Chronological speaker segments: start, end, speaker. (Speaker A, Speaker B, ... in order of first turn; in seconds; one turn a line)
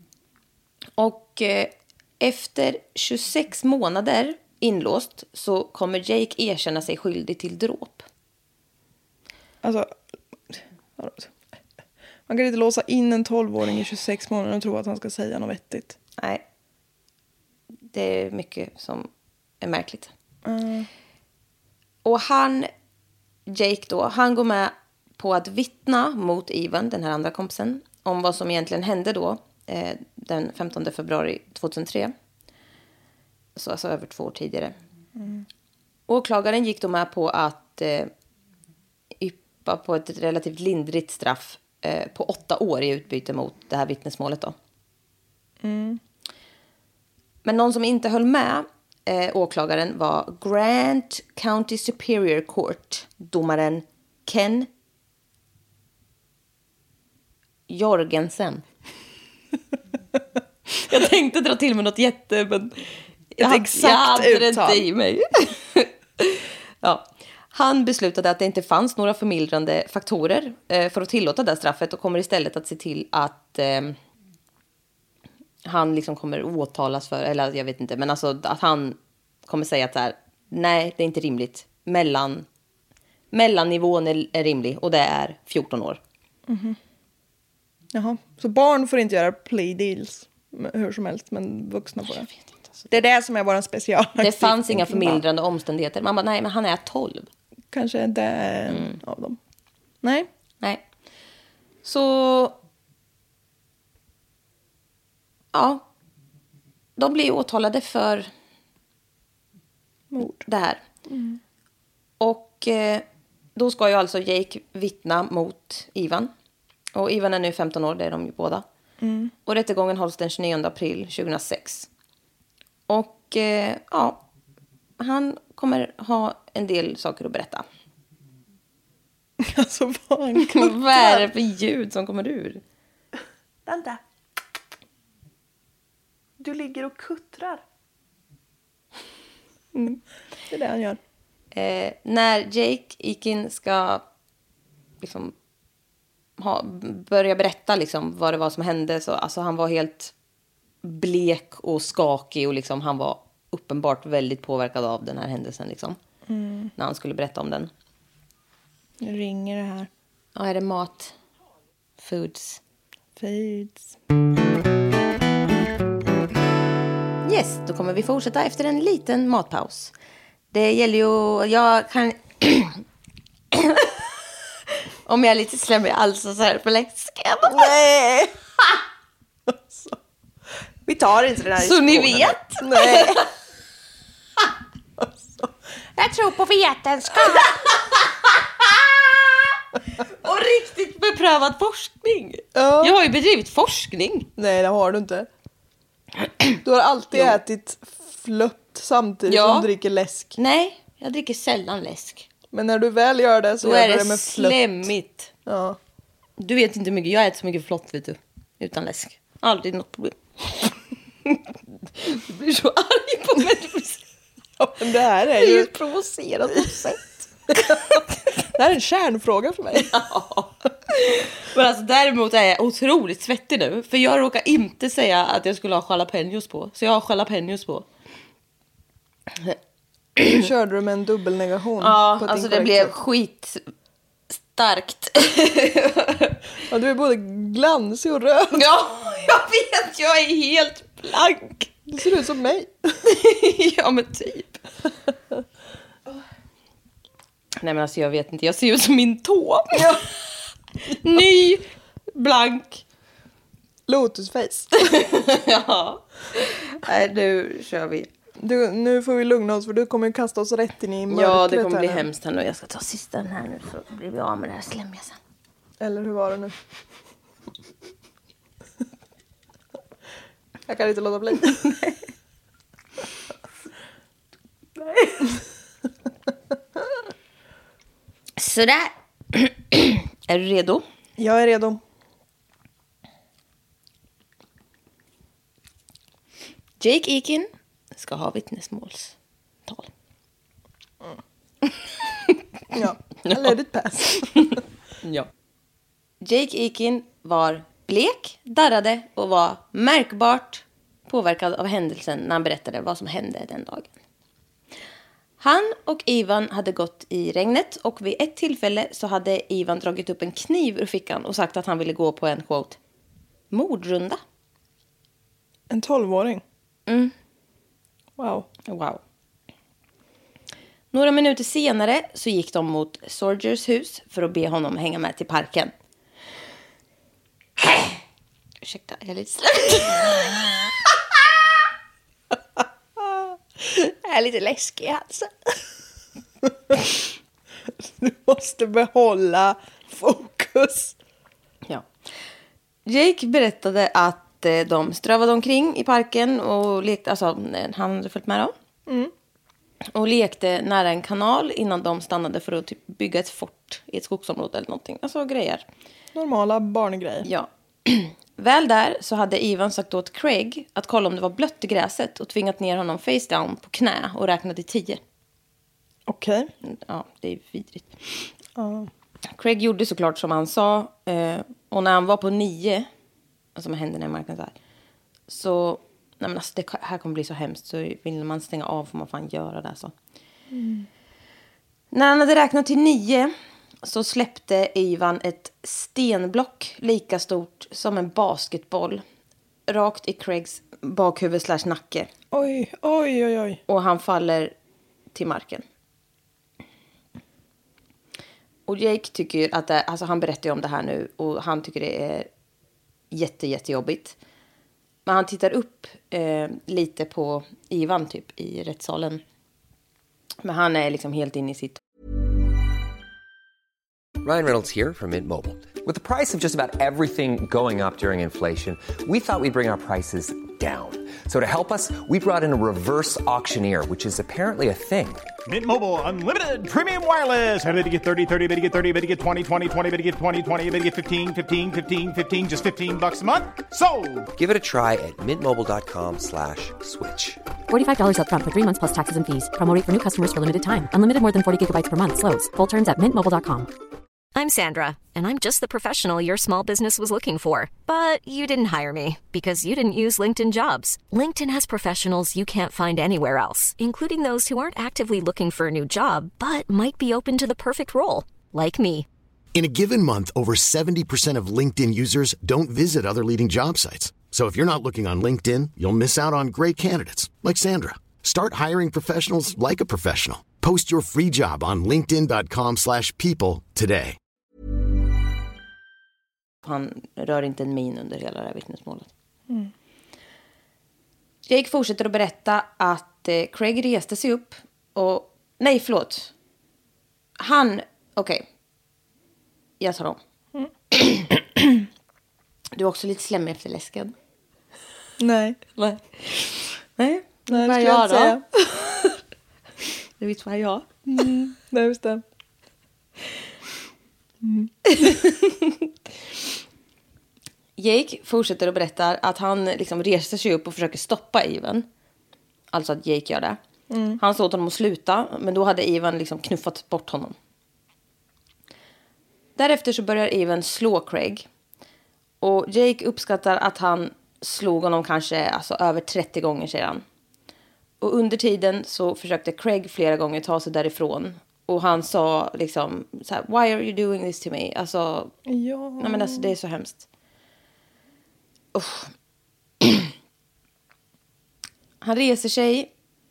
Speaker A: 1.0-8.1
Speaker B: 9.6-9.9
Speaker B: 10.5-11.3
Speaker B: 12.3-15.9
Speaker A: 16.2-16.4
Speaker A: 17.9-19.1
Speaker A: 19.6-20.1
Speaker B: 20.4-20.9
Speaker A: 22.0-22.7
Speaker A: 23.5-32.1
Speaker A: 33.5-34.7
Speaker B: 35.2-35.5
Speaker A: 36.1-38.1
Speaker A: 39.2-44.5
Speaker B: 45.6-46.0
Speaker A: 47.4-54.7
Speaker A: 57.7-58.6
Speaker A: 60.7-74.0
Speaker B: 63.4-64.8
Speaker A: 75.6-82.5
Speaker A: 83.3-86.0
Speaker B: 86.5-86.8
Speaker B: 87.9-92.3
Speaker A: 92.1-92.9
Speaker B: 92.9-95.2
Speaker A: 94.2-97.3
Speaker B: 97.7-99.4
Speaker A: 98.7-99.0
Speaker B: 100.0-100.3
Speaker A: 101.8-102.6
Speaker A: 105.5-105.8
Speaker A: 107.0-108.3
Speaker B: 110.1-110.4
Speaker A: 110.4-110.8
Speaker B: 111.1-111.4
Speaker A: 112.2-113.0
Speaker A: 113.5-116.3
Speaker A: 116.9-118.6
Speaker B: 119.0-119.3
Speaker A: 119.5-121.9
Speaker A: 122.9-124.2
Speaker A: 125.0-127.6
Speaker B: 129.4-131.3
Speaker A: 130.4-132.6
Speaker B: 133.7-134.0
Speaker B: 136.4-137.6
Speaker B: 139.7-141.0
Speaker A: 141.5-144.0
Speaker A: 145.0-145.3
Speaker A: 146.4-150.1
Speaker A: 150.8-156.0
Speaker B: 156.3-156.7
Speaker A: 156.8-157.7
Speaker B: 159.0-159.9
Speaker A: 160.3-161.1
Speaker A: 162.0-162.6
Speaker B: 163.2-163.9
Speaker A: 167.2-169.9
Speaker A: 170.5-172.8
Speaker A: 173.5-173.9
Speaker A: 175.1-177.7
Speaker B: 177.5-178.3
Speaker B: 179.5-179.9
Speaker B: 180.8-183.3
Speaker A: 181.6-183.3
Speaker B: 185.0-185.5
Speaker A: 186.5-194.3
Speaker B: 187.1-187.5
Speaker B: 192.5-192.9
Speaker B: 194.4-195.3
Speaker B: 196.6-200.3
Speaker A: 197.1-197.4
Speaker A: 199.3-199.7
Speaker A: 200.4-202.3
Speaker B: 202.5-204.7
Speaker A: 203.6-205.3
Speaker B: 205.4-205.8
Speaker A: 206.4-210.6
Speaker A: 212.0-214.0
Speaker B: 214.6-215.7
Speaker A: 215.3-218.0
Speaker B: 218.4-219.9
Speaker A: 219.7-227.9
Speaker B: 230.3-232.9
Speaker A: 231.8-233.6
Speaker A: 234.4-236.4
Speaker B: 236.7-238.6
Speaker A: 238.5-241.7
Speaker B: 241.9-242.8
Speaker A: 243.0-244.6
Speaker A: 247.6-250.1
Speaker B: 249.7-250.0
Speaker A: 250.9-252.8
Speaker B: 253.9-255.0
Speaker A: 254.8-258.1
Speaker B: 258.4-262.1
Speaker A: 261.1-265.2
Speaker B: 265.8-266.5
Speaker B: 270.7-271.8
Speaker A: 278.4-280.8
Speaker B: 281.2-281.8
Speaker A: 286.8-289.1
Speaker B: 292.7-294.5
Speaker A: 293.2-293.5
Speaker A: 295.0-295.3
Speaker A: 296.2-303.9
Speaker A: 305.4-312.8
Speaker A: 313.5-314.2
Speaker B: 315.7-316.4
Speaker A: 316.9-317.1
Speaker B: 318.2-318.5
Speaker A: 318.6-319.0
Speaker A: 320.9-325.7
Speaker A: 328.6-330.7
Speaker B: 333.0-335.5
Speaker B: 337.8-340.9
Speaker A: 342.9-348.5
Speaker B: 348.9-349.1
Speaker A: 349.9-355.6
Speaker B: 356.1-357.3
Speaker A: 357.2-365.0
Speaker B: 366.1-366.5
Speaker A: 366.6-368.3
Speaker B: 368.6-368.9
Speaker A: 369.3-372.9
Speaker A: 373.6-374.5
Speaker A: 375.3-379.9
Speaker B: 380.5-380.9
Speaker A: 381.9-383.3
Speaker A: 383.8-389.0
Speaker A: 389.7-392.1
Speaker B: 392.3-393.6
Speaker A: 393.7-394.5
Speaker A: 395.1-395.6
Speaker A: 398.7-402.3
Speaker A: 403.1-404.1
Speaker A: 405.1-409.2
Speaker A: 410.4-411.8
Speaker C: 414.2-425.3
Speaker D: 425.5-434.3
Speaker C: 434.4-437.4
Speaker E: 437.7-443.7
Speaker F: 444.3-459.1
Speaker G: 459.5-474.2
Speaker A: 476.6-479.1
Speaker A: 481.4-486.3
Speaker A: 487.4-488.4
Speaker A: 489.8-490.2
Speaker A: 490.9-491.2
Speaker A: 492.7-494.1
Speaker B: 495.2-495.6
Speaker A: 495.8-498.4
Speaker B: 497.5-498.4
Speaker A: 500.2-500.9
Speaker B: 501.1-502.2
Speaker B: 504.4-505.1
Speaker A: 505.0-505.5
Speaker A: 507.8-511.9
Speaker A: 512.7-513.6
Speaker B: 513.9-514.2
Speaker A: 514.2-517.3
Speaker A: 519.6-521.5
Speaker A: 522.4-527.0
Speaker A: 528.0-535.3
Speaker B: 535.5-536.5
Speaker A: 536.0-537.0
Speaker A: 538.7-539.1
Speaker A: 539.8-540.1
Speaker A: 542.0-542.9